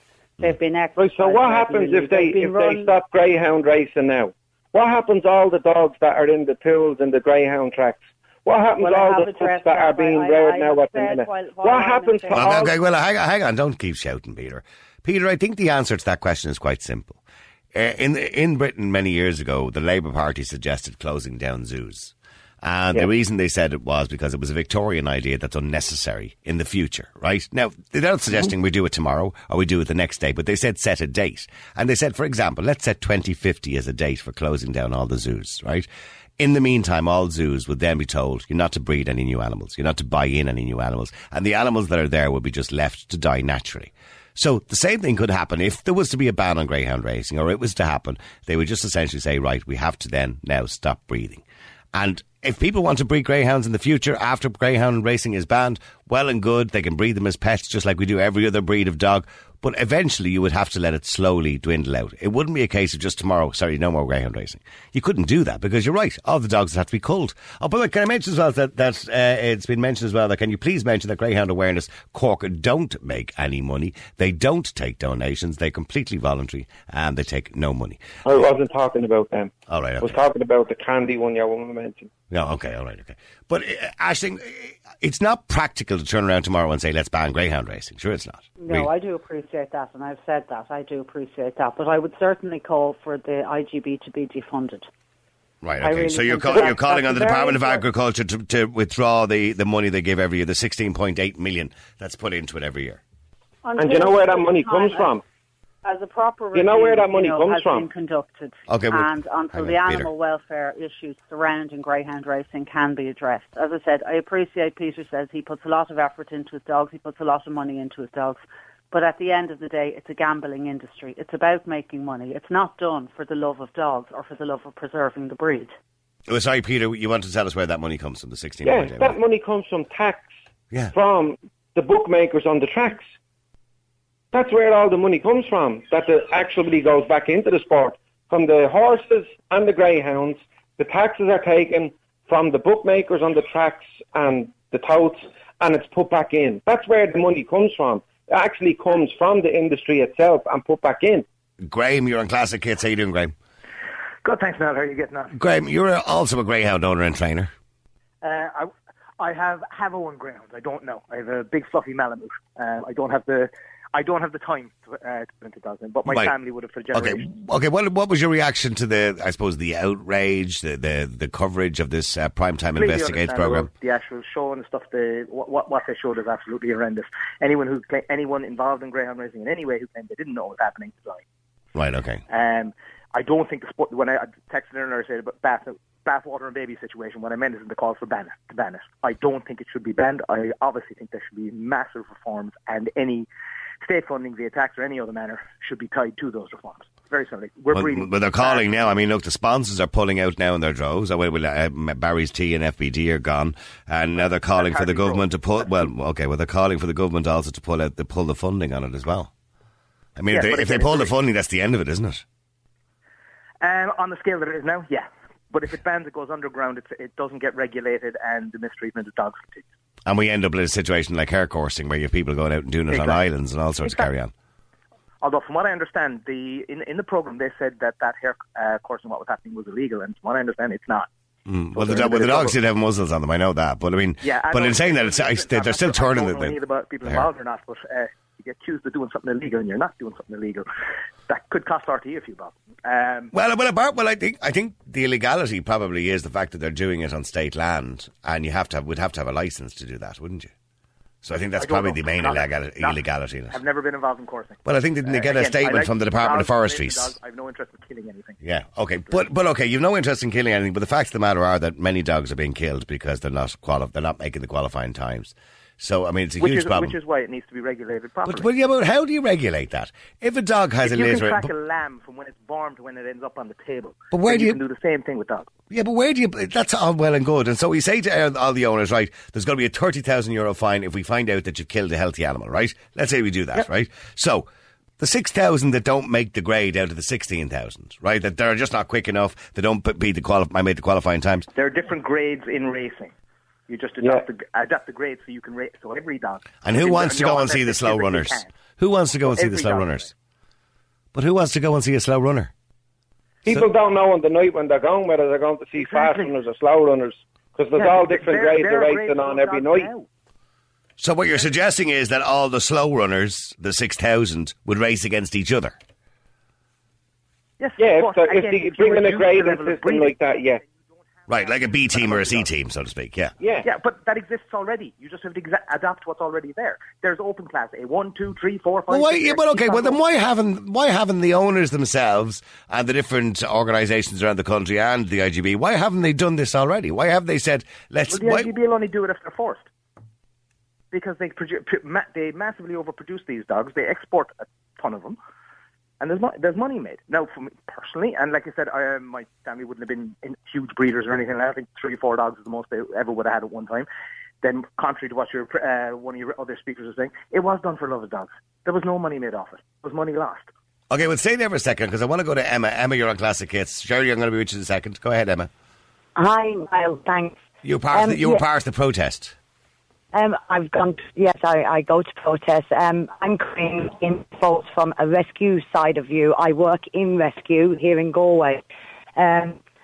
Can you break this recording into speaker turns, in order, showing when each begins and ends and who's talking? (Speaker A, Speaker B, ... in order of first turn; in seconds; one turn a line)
Speaker A: 0.4-2.9
Speaker B: 1.0-12.7
Speaker A: 8.8-12.7
Speaker C: 12.3-17.2
Speaker C: 17.7-35.9
Speaker C: 36.4-51.4
Speaker C: 51.9-78.4
Speaker B: 78.2-82.1
Speaker C: 79.7-80.1
Speaker C: 82.3-88.9
Speaker A: 88.6-94.9
Speaker C: 95.6-103.0
Speaker A: 95.8-97.8
Speaker A: 103.6-105.2
Speaker B: 103.8-105.2
Speaker A: 105.8-125.8
Speaker B: 106.5-107.9
Speaker C: 108.7-110.1
Speaker C: 126.3-129.2
Speaker B: 128.6-130.3
Speaker B: 130.9-133.0
Speaker B: 134.3-151.2
Speaker C: 151.6-153.3
Speaker D: 154.2-155.3
Speaker C: 155.3-157.5
Speaker D: 158.2-167.3
Speaker C: 166.1-166.3
Speaker C: 166.9-173.7
Speaker D: 172.8-181.2
Speaker C: 181.8-182.2
Speaker D: 182.3-193.3
Speaker D: 193.8-198.9
Speaker C: 197.7-209.3
Speaker D: 204.4-205.7
Speaker C: 210.2-212.2
Speaker D: 210.3-211.1
Speaker D: 213.6-219.7
Speaker C: 220.1-224.3
Speaker D: 222.9-223.2
Speaker D: 223.8-224.1
Speaker D: 225.2-231.1
Speaker C: 231.5-237.3
Speaker D: 231.8-232.6
Speaker D: 234.2-240.7
Speaker D: 241.3-243.3
Speaker C: 243.3-250.5
Speaker C: 251.2-253.6
Speaker D: 251.3-258.4
Speaker C: 254.7-257.1
Speaker C: 258.4-267.0
Speaker D: 266.4-268.5
Speaker C: 268.2-271.5
Speaker D: 270.8-275.5
Speaker C: 274.1-274.6
Speaker C: 275.7-284.5
Speaker C: 285.0-291.5
Speaker D: 291.6-293.1
Speaker D: 293.7-298.5
Speaker C: 296.6-300.1
Speaker D: 299.3-300.1
Speaker C: 301.1-302.5
Speaker B: 303.4-309.9
Speaker D: 305.8-306.3
Speaker D: 307.8-310.1
Speaker C: 311.0-315.8
Speaker D: 317.6-320.7
Speaker B: 317.8-320.6
Speaker D: 321.3-322.4
Speaker C: 321.3-323.3
Speaker B: 323.4-323.7
Speaker D: 323.6-330.0
Speaker C: 328.9-338.5
Speaker D: 338.1-339.7
Speaker D: 340.9-345.2
Speaker D: 346.0-353.9
Speaker D: 354.4-360.5
Speaker C: 360.9-365.5
Speaker E: 366.2-367.4
Speaker C: 367.6-369.4
Speaker E: 367.9-368.4
Speaker E: 370.1-378.6
Speaker E: 379.2-379.6